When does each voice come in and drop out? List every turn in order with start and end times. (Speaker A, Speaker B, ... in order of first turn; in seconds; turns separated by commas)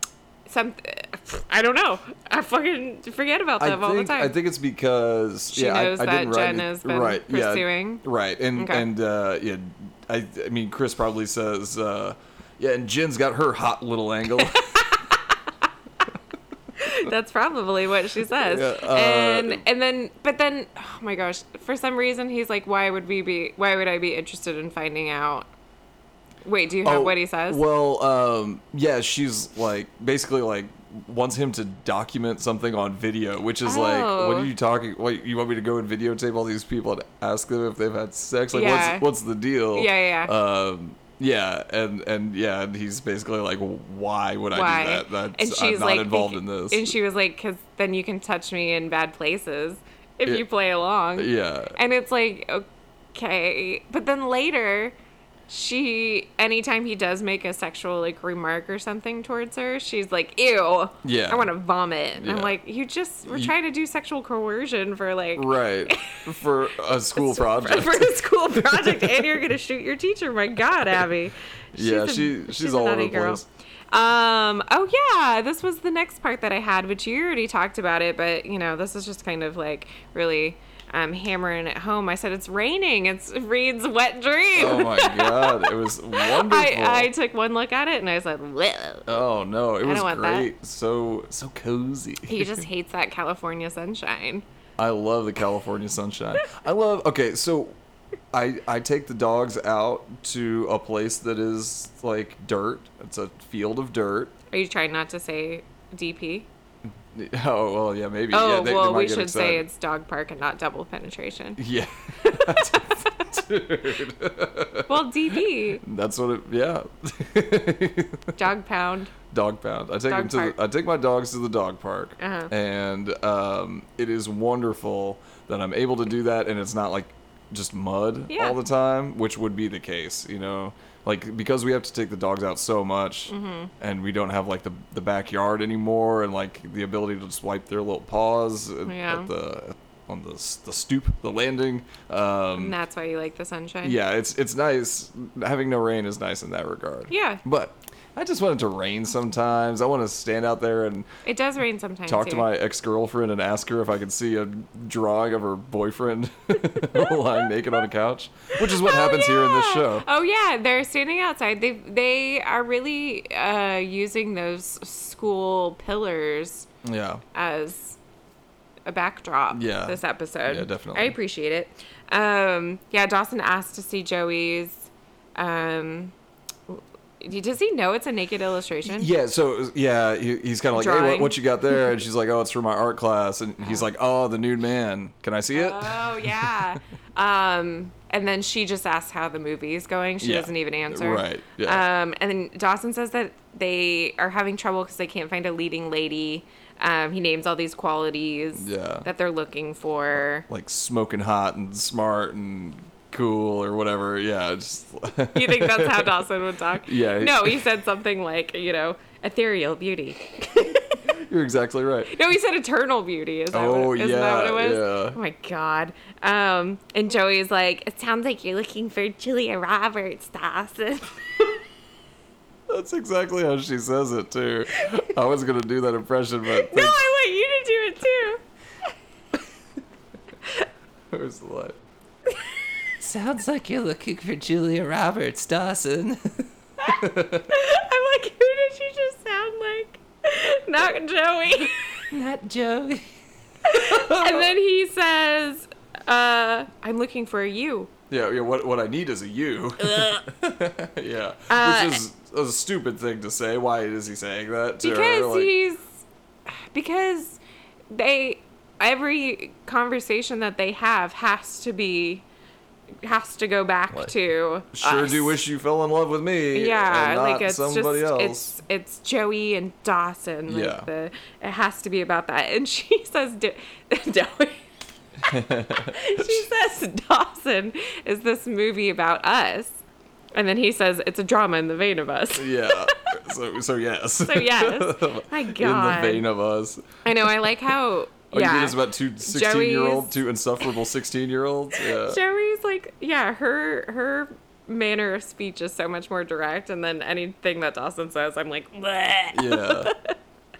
Speaker A: 0.5-4.3, Speaker B: 3.6-14.8, Speaker A: 5.5-8.0, Speaker A: 8.6-8.9, Speaker A: 14.5-15.3, Speaker A: 16.8-25.5, Speaker B: 18.3-19.6, Speaker A: 26.4-27.6, Speaker B: 26.8-46.9, Speaker A: 33.6-34.5, Speaker A: 38.5-39.1, Speaker A: 39.7-40.3, Speaker A: 44.5-54.9, Speaker B: 51.2-51.8, Speaker A: 55.5-66.2, Speaker B: 61.0-61.5, Speaker B: 62.2-62.5, Speaker B: 63.3-63.5, Speaker B: 65.3-69.4, Speaker A: 67.1-89.2, Speaker B: 71.7-73.5, Speaker B: 84.5-87.1, Speaker B: 89.1-92.6, Speaker A: 89.8-90.5, Speaker A: 92.2-94.4, Speaker B: 94.8-97.8, Speaker B: 98.3-104.3, Speaker A: 104.5-106.5, Speaker B: 107.1-109.7, Speaker A: 108.3-111.6, Speaker B: 111.6-115.0, Speaker A: 112.2-113.2, Speaker A: 114.9-115.8, Speaker B: 115.8-118.3, Speaker A: 118.3-119.1, Speaker B: 119.3-142.8, Speaker A: 120.1-120.5, Speaker A: 122.2-122.5, Speaker A: 128.3-128.6, Speaker A: 133.3-133.7, Speaker A: 138.8-139.3, Speaker A: 142.6-144.0, Speaker B: 143.8-151.1, Speaker A: 147.1-147.4, Speaker A: 151.2-152.5, Speaker B: 152.1-160.1, Speaker A: 158.6-166.7, Speaker B: 166.8-167.2, Speaker A: 167.3-168.0, Speaker A: 168.8-176.1, Speaker B: 169.5-171.2, Speaker A: 176.7-179.1, Speaker B: 178.9-186.8, Speaker A: 180.8-181.4, Speaker A: 185.5-200.4, Speaker B: 190.2-191.8, Speaker B: 198.6-199.1, Speaker B: 200.1-206.1, Speaker A: 205.3-211.1, Speaker B: 206.8-207.6, Speaker B: 211.1-212.2, Speaker A: 212.1-221.6, Speaker B: 213.5-215.2, Speaker B: 222.7-227.0, Speaker A: 226.5-228.4, Speaker B: 231.1-231.8, Speaker C: 233.0-236.4, Speaker A: 236.8-242.1, Speaker B: 236.8-237.5, Speaker C: 242.1-243.1, Speaker A: 243.6-247.9, Speaker B: 243.7-244.5, Speaker B: 248.1-255.5, Speaker A: 249.8-250.2, Speaker A: 251.5-252.0, Speaker A: 254.8-255.9, Speaker A: 256.5-262.2, Speaker A: 263.0-265.4, Speaker B: 264.7-268.5, Speaker A: 266.5-274.7, Speaker B: 270.5-270.9, Speaker B: 275.3-276.4, Speaker A: 275.3-279.8, Speaker A: 280.3-283.1, Speaker B: 282.4-287.6, Speaker A: 284.2-286.2, Speaker A: 287.0-290.2, Speaker B: 288.3-292.2, Speaker A: 291.8-300.1, Speaker B: 299.3-299.9